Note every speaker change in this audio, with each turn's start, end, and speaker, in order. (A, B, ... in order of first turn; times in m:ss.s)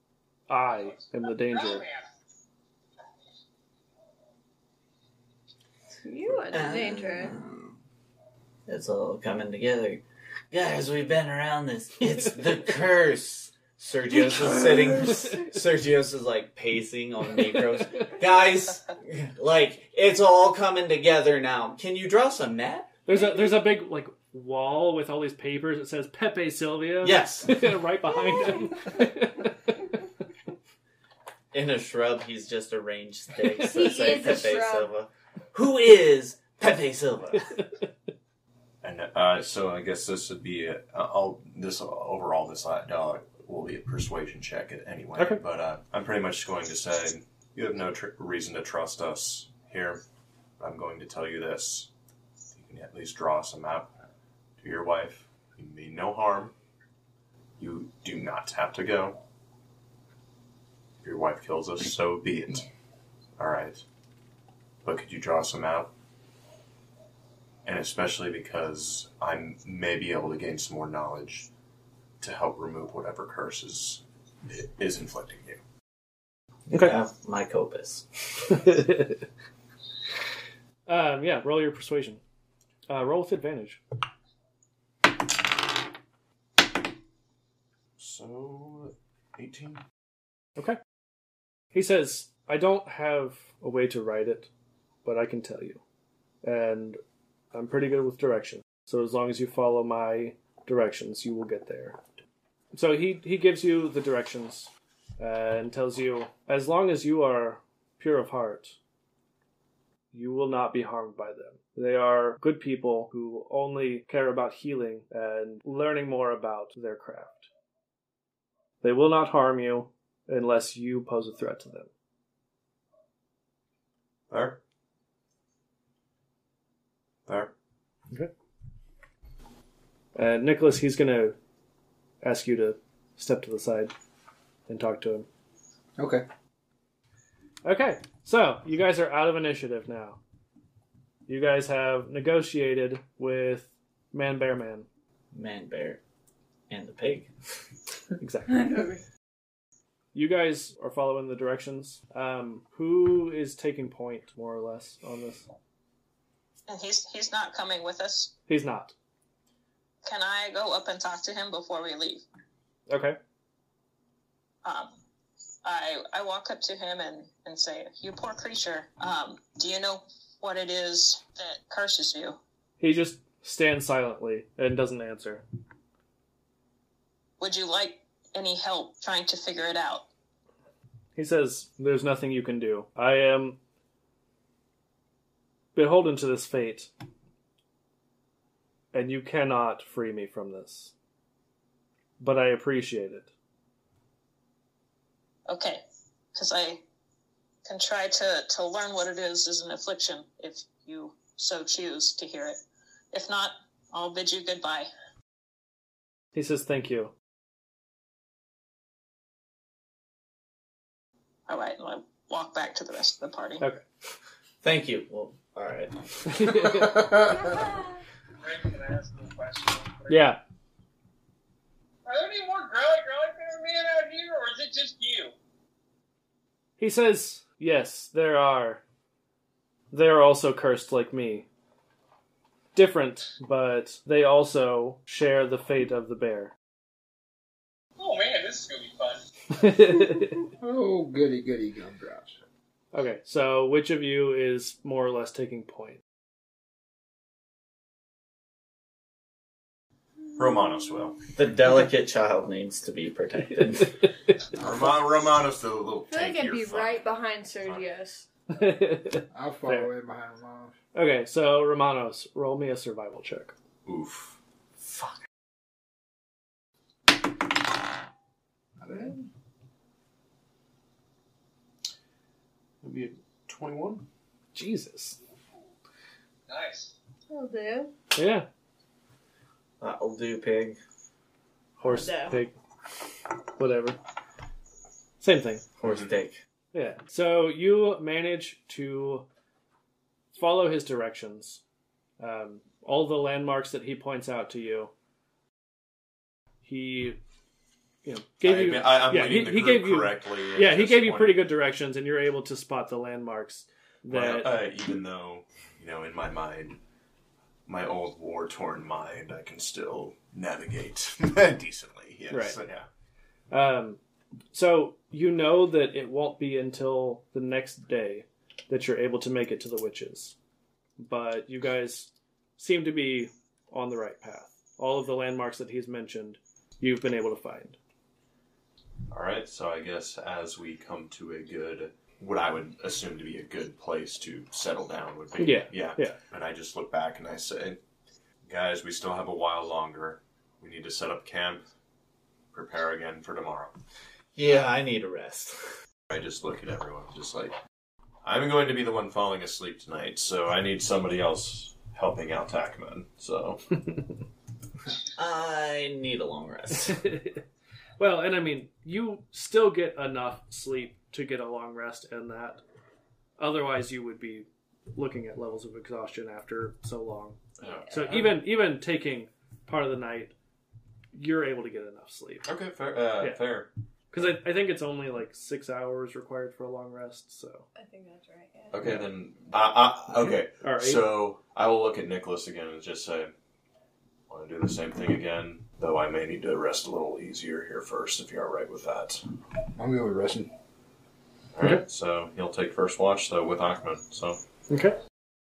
0:00.5-0:01.8 A
0:00.8-0:02.1 B
0:06.0-0:07.3 C
0:06.5-0:07.7 D
0:08.7-0:22.9 D
0:15.0-0:15.6 A
0:23.0-0:29.8 A
0:27.0-0:27.7 D
0:31.5-0:37.6 D
0:33.6-0:34.9 C
0:37.4-0:37.8 A
0:38.8-0:50.0 E
0:50.6-0:51.9 E
0:52.5-0:53.9 E
0:54.6-0:56.5 E
0:57.6-0:59.2 E
1:01.0-1:02.7 E
1:03.4-1:03.8 E
1:04.8-1:05.9 E
1:07.6-1:11.5 E
1:12.2-1:15.6 E
1:16.7-1:18.6 D
1:18.5-1:19.2 A
1:20.9-1:22.2 A
1:22.9-1:23.8 A
1:28.0-1:29.8 E
1:31.7-1:34.5 A
1:35.0-1:35.8 A
1:36.4-1:37.0 A
1:37.5-1:42.0 A
1:42.7-1:48.8 A
1:50.1-1:57.5 A
1:58.8-2:01.9 A
2:04.3-2:04.6 E
2:10.1-2:11.4 A
2:12.2-2:13.9 A
2:14.7-2:15.3 A
2:16.0-2:16.2 F
2:17.6-2:20.2 A
2:21.3-2:24.9 A
2:25.3-2:26.0 D
2:26.7-2:27.3 D
2:28.2-2:28.6 A
2:28.5-2:29.0 C
2:30.1-2:35.5 A
2:36.7-2:38.3 G
2:38.5-2:38.9 A
2:40.0-2:42.2 G
2:42.9-2:43.2 A
2:44.6-2:45.0 G
2:45.6-2:52.4 G
2:52.8-2:55.4 A
2:57.4-3:00.0 G
3:01.2-3:03.6 A
3:05.7-3:06.9 A
3:08.9-3:10.9 A
3:12.2-3:13.3 A
3:15.5-3:15.8 G
3:16.3-3:16.8 G
3:17.6-3:22.6 G
3:23.1-3:24.9 G
3:26.3-3:27.1 A
3:31.5-3:33.6 G
3:34.6-3:36.7 D
3:36.3-3:37.0 A
3:36.8-3:37.2 F
3:37.3-3:38.0 C
3:38.4-3:40.3 B
3:40.1-3:40.4 A
3:42.0-3:45.3 B
3:46.8-3:48.8 A
3:49.9-3:51.5 A
3:52.7-3:56.5 A
3:58.0-3:59.2 B
3:59.5-4:00.4 A
4:00.4-4:02.4 F
4:02.9-4:06.0 A
4:10.4-4:11.2 E
4:11.3-4:14.0 D
4:14.5-4:17.0 E
4:16.1-4:18.3 C
4:18.5-4:19.9 A
4:19.3-4:20.7 F
4:20.9-4:23.5 A
4:23.8-4:24.4 E
4:24.8-4:25.2 D
4:28.8-4:29.2 F
4:32.8-4:33.1 A
4:33.5-4:34.0 E
4:34.5-4:35.2 A
4:36.5-4:36.9 B
4:37.3-4:37.9 C
4:38.2-4:38.5 A
4:39.8-4:40.8 D
4:41.8-4:42.5 A
4:41.8-4:42.3 C
4:43.6-4:44.0 A
4:45.2-4:45.6 A
4:45.8-4:46.4 D
4:45.8-4:46.1 E
4:46.7-4:49.2 A
4:50.3-4:51.6 A
4:52.2-4:54.9 A
4:56.6-4:57.2 A
4:58.0-5:04.6 A
4:58.4-5:01.5 E
5:04.1-5:06.8 E
5:07.7-5:12.9 E
5:12.3-5:12.6 A
5:13.5-5:14.0 A
5:14.5-5:20.4 A
5:21.0-5:27.8 A
5:29.1-5:37.8 E
5:35.4-5:36.2 A
5:38.4-5:41.6 E
5:42.5-5:43.7 E
5:44.4-5:45.7 D
5:46.1-5:47.5 E
5:48.2-5:53.8 E
5:55.2-5:57.0 D
5:56.8-5:57.4 A
5:58.0-6:02.6 A
6:03.4-6:07.4 A
6:07.6-6:08.3 E
6:07.6-6:08.1 C
6:07.9-6:10.3 A
6:11.1-6:12.5 A
6:12.4-6:13.7 E
6:14.1-6:17.7 A
6:17.7-6:18.9 C
6:18.7-6:23.3 E
6:20.2-6:21.1 A
6:24.3-6:29.2 E
6:29.8-6:30.5 F
6:31.5-6:34.4 E
6:34.7-6:35.0 A